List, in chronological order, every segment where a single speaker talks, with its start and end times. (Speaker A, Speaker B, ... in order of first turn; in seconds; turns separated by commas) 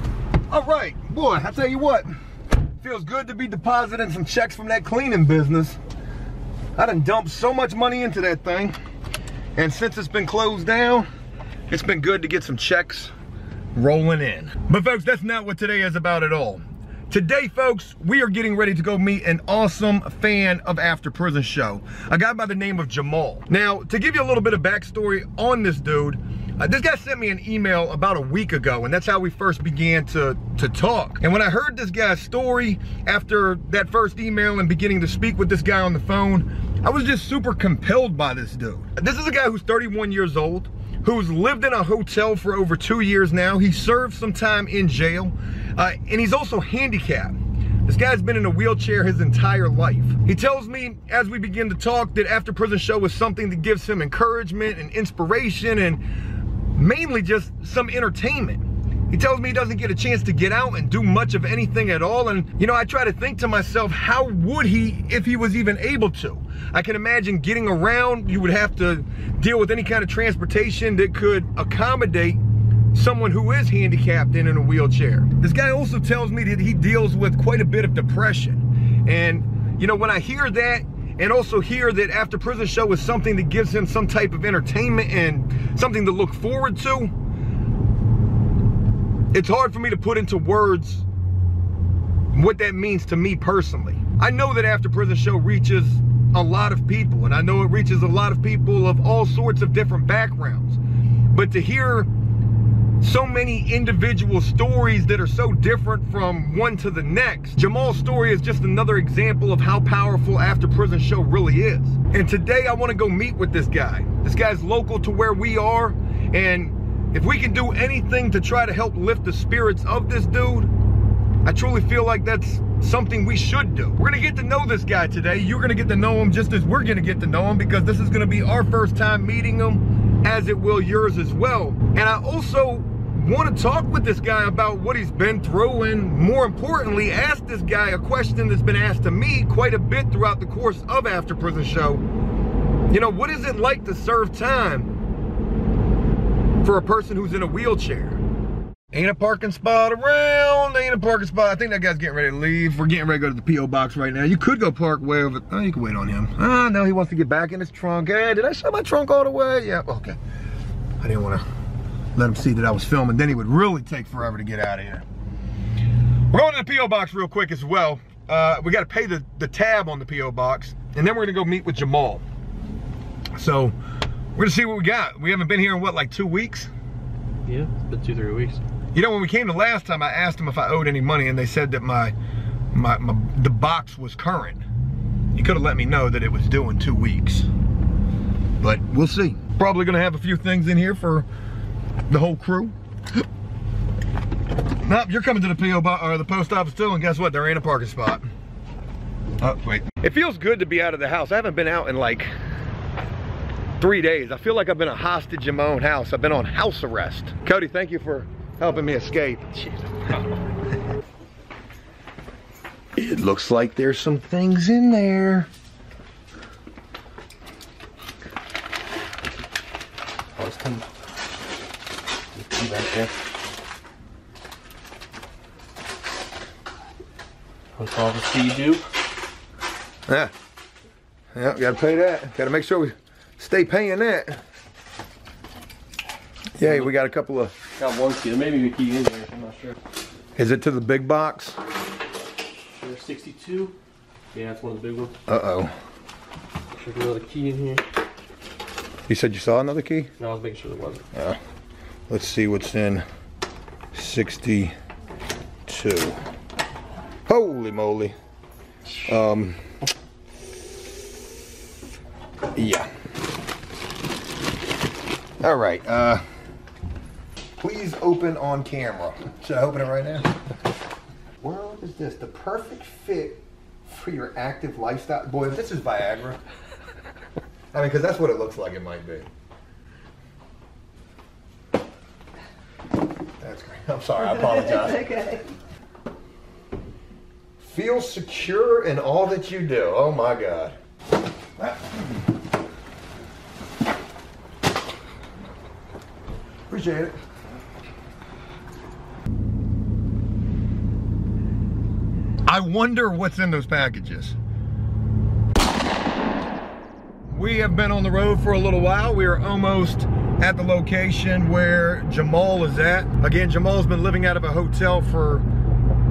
Speaker A: 0.5-2.1, Speaker A: 2.8-5.8, Speaker A: 6.8-8.8, Speaker A: 9.6-11.1, Speaker A: 11.7-13.1, Speaker A: 13.7-56.0, Speaker A: 56.7-72.4, Speaker A: 72.9-87.1, Speaker A: 89.3-91.0, Speaker A: 92.3-100.8, Speaker A: 101.3-102.1, Speaker A: 103.0-120.7, Speaker A: 121.4-142.0, Speaker A: 142.9-144.9, Speaker A: 146.6-148.2, Speaker A: 148.9-160.2, Speaker A: 161.0-161.4, Speaker A: 162.1-165.0, Speaker A: 166.3-172.2, Speaker A: 173.3-173.7, Speaker A: 174.3-176.7, Speaker B: 177.4-178.6, Speaker A: 178.9-182.1, Speaker A: 182.7-184.6, Speaker A: 185.3-187.5, Speaker A: 188.6-191.2, Speaker A: 192.1-192.7, Speaker A: 194.8-198.2, Speaker A: 199.4-202.3, Speaker A: 203.8-210.2, Speaker A: 212.9-215.5, Speaker B: 220.3-220.9, Speaker B: 222.3-223.1, Speaker B: 227.8-228.8, Speaker A: 230.1-230.3, Speaker A: 231.3-234.4, Speaker A: 236.6-237.5, Speaker B: 236.6-236.9, Speaker B: 237.8-239.8, Speaker A: 240.3-241.6, Speaker B: 242.8-243.7, Speaker B: 244.3-245.2, Speaker A: 245.3-245.7, Speaker B: 246.7-247.8, Speaker A: 249.1-250.1, Speaker B: 250.2-251.1, Speaker A: 252.1-253.0, Speaker A: 253.9-254.7, Speaker A: 255.7-256.2, Speaker A: 257.3-258.1, Speaker A: 259.1-259.6, Speaker A: 262.5-262.9, Speaker A: 265.4-266.2, Speaker A: 267.6-270.3, Speaker A: 271.4-276.4, Speaker A: 277.7-279.3, Speaker A: 283.4-285.4, Speaker A: 287.6-290.8, Speaker A: 291.6-292.0, Speaker A: 296.7-297.2, Speaker A: 302.5-304.4, Speaker A: 307.3-315.4